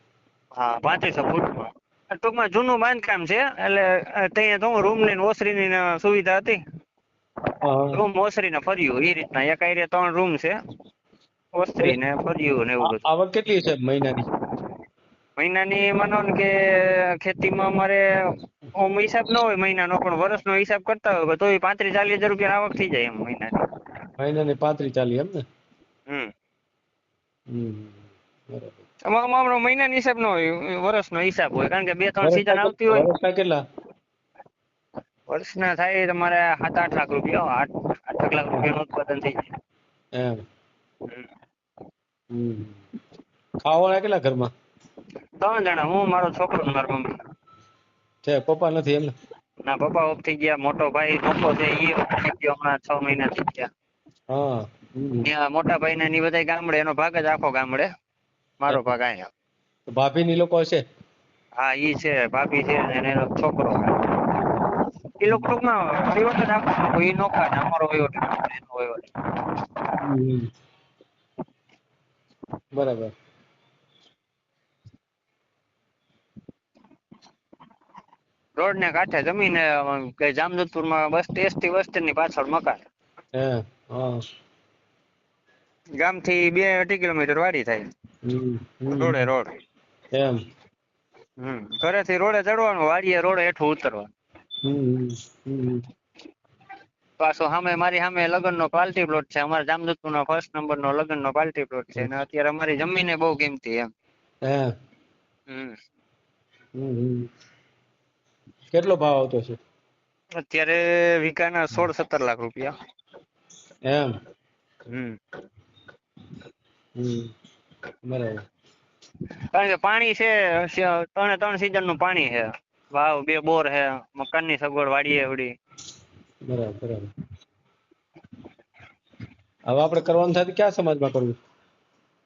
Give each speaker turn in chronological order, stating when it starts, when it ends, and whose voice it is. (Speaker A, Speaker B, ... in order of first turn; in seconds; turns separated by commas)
Speaker A: 0.6-6.6, Speaker B: 7.6-8.0, Speaker A: 7.9-10.5, Speaker A: 11.6-13.0, Speaker B: 12.8-14.2, Speaker A: 15.4-18.0, Speaker A: 18.8-23.6, Speaker B: 24.2-25.4, Speaker B: 27.5-28.8, Speaker A: 29.1-33.1, Speaker B: 32.2-33.6, Speaker A: 35.3-39.4, Speaker B: 42.3-42.8, Speaker B: 43.6-44.5, Speaker A: 45.4-47.1, Speaker B: 48.2-49.1, Speaker A: 49.7-53.7, Speaker B: 54.3-55.3, Speaker A: 55.2-57.9, Speaker A: 58.6-59.3, Speaker B: 58.7-59.0, Speaker B: 59.9-60.8, Speaker A: 61.6-64.0, Speaker A: 65.2-69.1, Speaker B: 70.0-70.5, Speaker B: 72.7-73.1, Speaker A: 78.6-82.8, Speaker B: 83.4-84.2, Speaker A: 86.0-87.9, Speaker B: 88.2-89.3, Speaker A: 88.9-89.5, Speaker A: 91.4-94.1, Speaker B: 94.6-95.8, Speaker A: 97.2-103.9, Speaker B: 104.4-104.7, Speaker A: 105.5-105.8, Speaker B: 106.8-107.3, Speaker B: 108.7-109.6, Speaker A: 110.4-112.7, Speaker B: 113.9-114.1, Speaker A: 114.9-115.2, Speaker B: 117.0-117.3, Speaker B: 118.1-118.4, Speaker A: 119.5-125.5, Speaker B: 126.5-127.1, Speaker B: 129.7-131.4